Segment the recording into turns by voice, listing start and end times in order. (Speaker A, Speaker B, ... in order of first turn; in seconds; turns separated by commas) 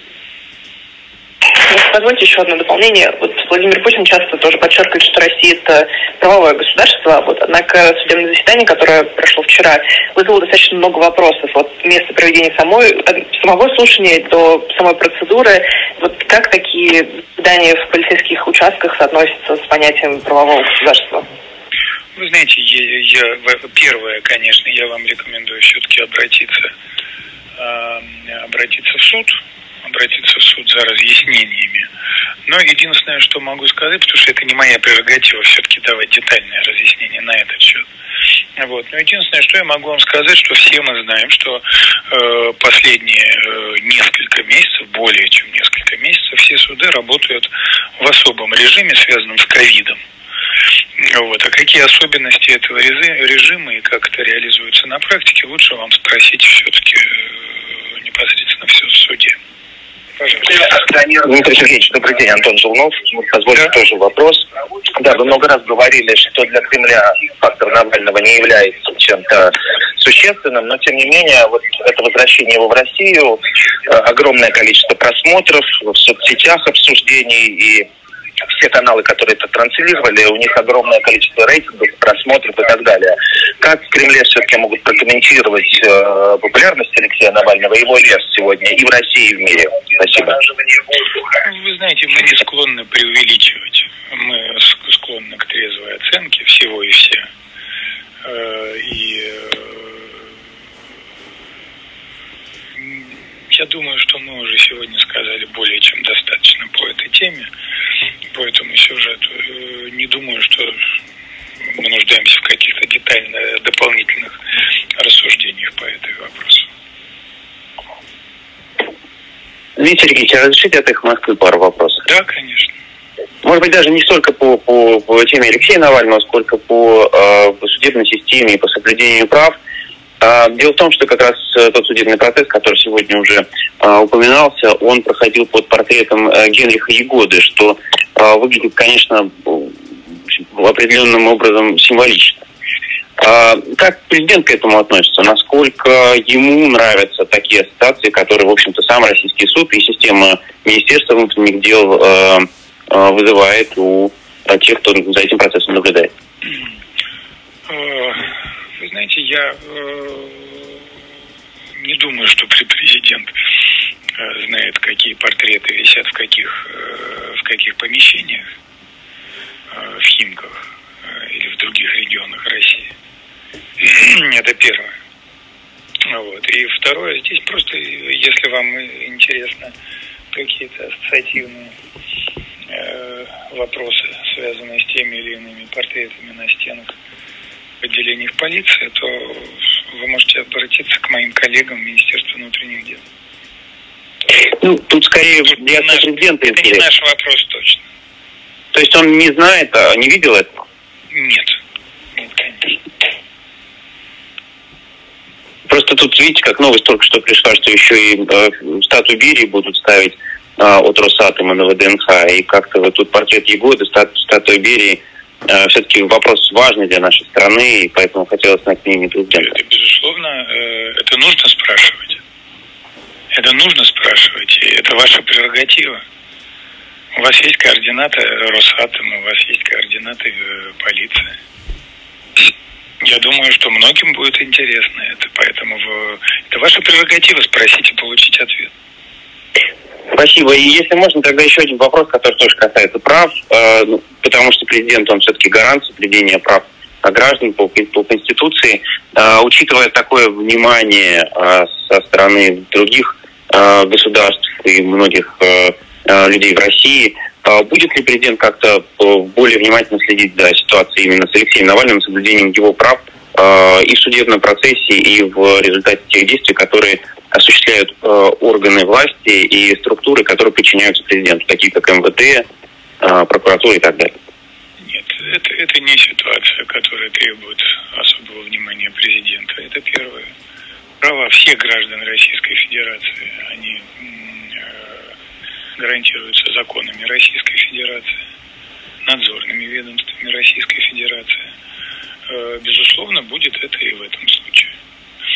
Speaker A: 1.5-21.3, Speaker B: 22.2-26.7, Speaker B: 27.6-31.9, Speaker B: 32.5-37.9, Speaker B: 38.6-50.0, Speaker B: 51.0-59.4, Speaker B: 60.2-60.6, Speaker C: 60.5-77.9, Speaker C: 78.5-90.4, Speaker B: 91.4-97.3, Speaker B: 98.2-100.1, Speaker B: 102.8-107.5, Speaker B: 108.3-110.8, Speaker B: 111.7-114.4, Speaker B: 115.0-116.7, Speaker D: 119.8-122.0, Speaker B: 122.1-122.7, Speaker D: 123.5-129.5, Speaker D: 130.2-139.7, Speaker D: 140.6-142.3, Speaker D: 143.2-156.1, Speaker B: 157.7-160.8, Speaker B: 161.8-163.3, Speaker B: 164.2-168.5, Speaker B: 169.7-172.9, Speaker B: 173.8-174.9, Speaker B: 176.1-179.7, Speaker B: 180.3-181.8, Speaker B: 182.7-186.9, Speaker B: 187.8-193.0, Speaker D: 194.6-196.6, Speaker B: 195.5-197.8, Speaker D: 198.8-200.4, Speaker B: 201.1-201.5, Speaker B: 202.2-202.7, Speaker D: 205.8-215.0, Speaker D: 215.5-219.4, Speaker B: 219.3-222.2, Speaker B: 223.3-226.0, Speaker B: 227.2-231.4, Speaker B: 233.0-238.7, Speaker D: 240.2-253.0, Speaker D: 253.5-272.4, Speaker D: 273.0-274.1, Speaker B: 274.8-280.3, Speaker B: 281.0-285.0, Speaker B: 285.8-288.2, Speaker B: 289.0-291.5, Speaker B: 292.3-294.7